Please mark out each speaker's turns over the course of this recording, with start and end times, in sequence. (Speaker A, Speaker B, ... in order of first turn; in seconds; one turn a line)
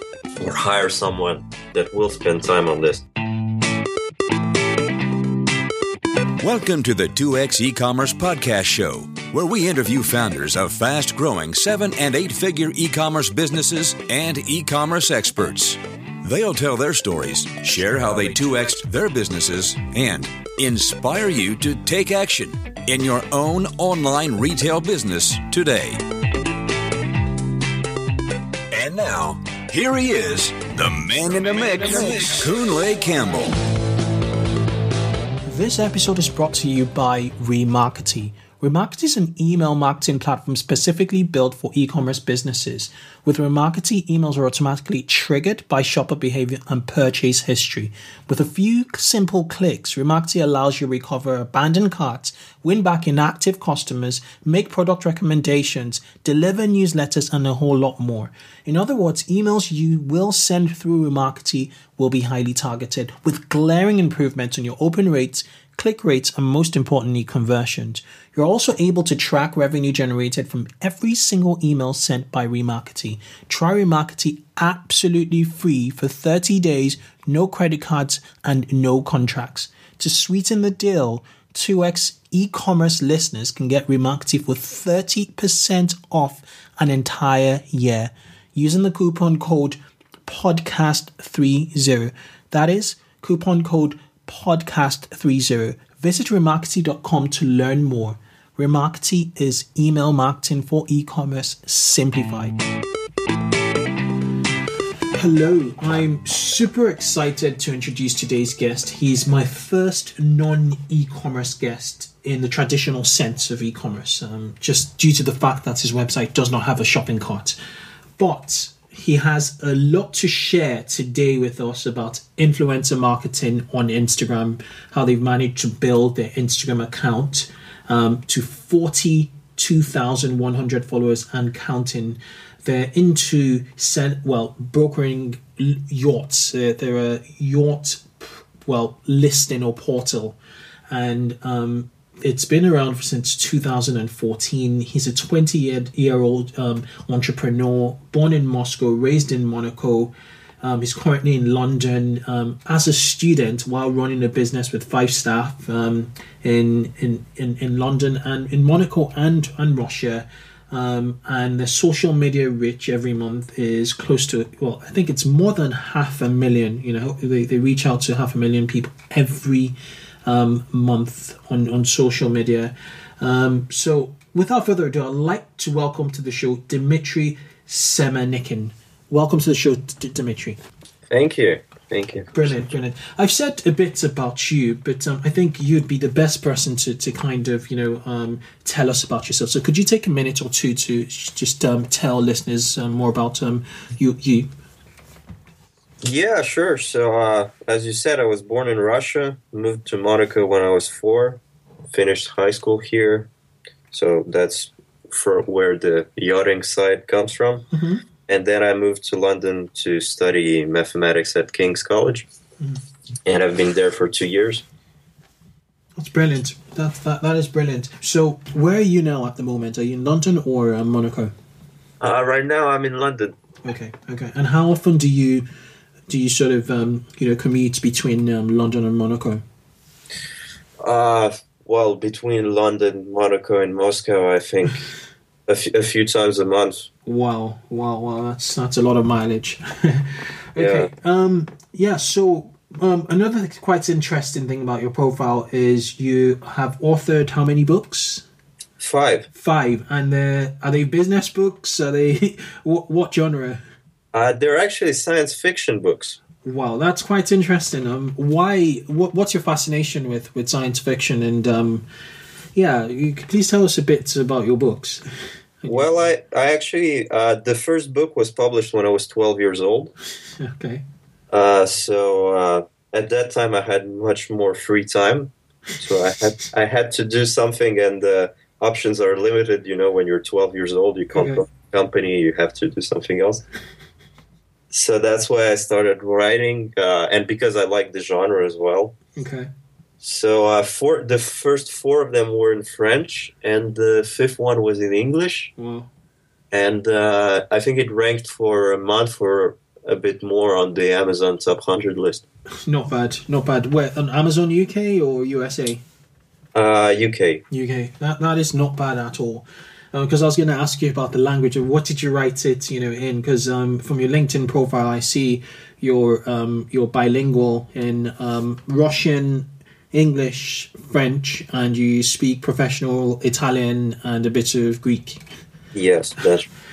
Speaker A: 0.4-3.0
Speaker B: 6.4-26.0
Speaker B: 28.7-33.5
Speaker C: 35.5-102.6
Speaker C: 105.2-117.6
Speaker C: 118.2-140.4
Speaker C: 140.9-180.6
Speaker A: 181.1-182.4
Speaker C: 182.3-194.5
Speaker A: 196.0-203.3
Speaker A: 203.9-207.7
Speaker C: 207.7-208.0
Speaker A: 208.3-212.3
Speaker A: 213.3-214.7
Speaker C: 216.0-221.3
Speaker A: 222.0-223.3
Speaker C: 223.6-225.5
Speaker C: 226.1-229.4
Speaker A: 230.8-234.8
Speaker A: 235.5-236.9
Speaker C: 237.1-248.2
Speaker A: 240.6-240.9
Speaker A: 248.8-249.3
Speaker C: 249.3-253.6
Speaker A: 254.1-256.2
Speaker C: 256.4-261.9
Speaker C: 262.6-265.9
Speaker A: 265.7-269.9
Speaker C: 270.3-270.9
Speaker A: 271.3-283.4
Speaker C: 281.1-281.4
Speaker A: 284.7-288.9
Speaker C: 289.2-289.5
Speaker A: 290.0-295.5
Speaker C: 295.6-295.9
Speaker A: 296.5-302.2
Speaker C: 302.6-305.8
Speaker A: 306.6-307.4
Speaker C: 307.5-325.2
Speaker A: 325.7-326.5